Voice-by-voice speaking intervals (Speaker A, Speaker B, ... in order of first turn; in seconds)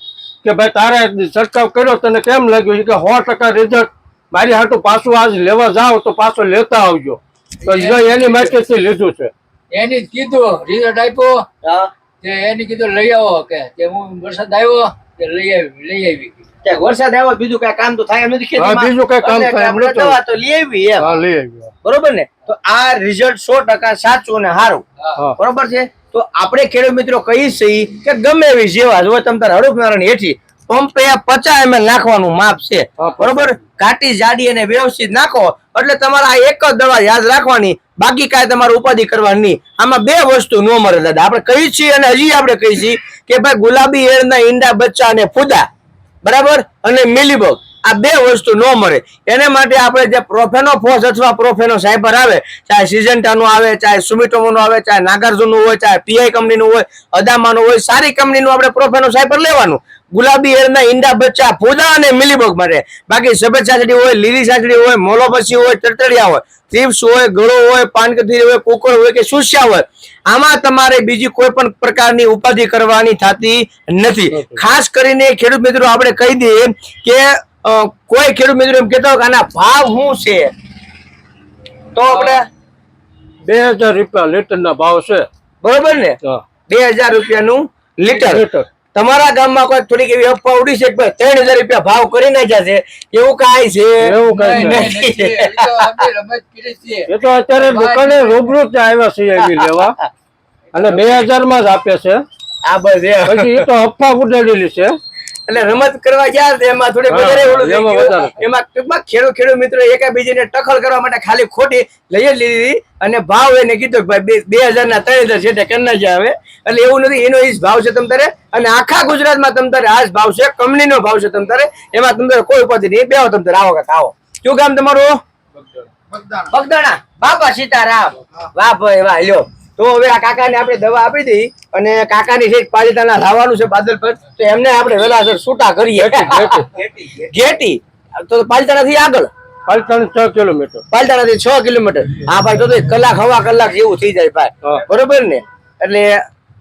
Speaker A: 0.4-9.3, 18.6-20.2, 21.0-21.7, 33.0-33.6, 74.3-74.6, 83.4-85.3, 88.1-88.7, 94.0-94.9, 97.1-100.0, 100.7-102.2, 103.2-105.0, 107.1-108.4, 136.0-136.7, 139.7-140.8
Speaker B: 7.6-8.4, 9.7-11.4, 12.2-16.4, 82.1-82.4, 94.3-98.5
Speaker C: 11.6-11.9, 16.6-21.1, 21.9-24.8, 25.4-45.7, 46.2-80.5, 82.0-82.5, 85.6-86.2, 86.7-96.0, 99.4-99.9, 102.7-103.7, 105.5-125.2, 126.3-139.3, 140.9-146.2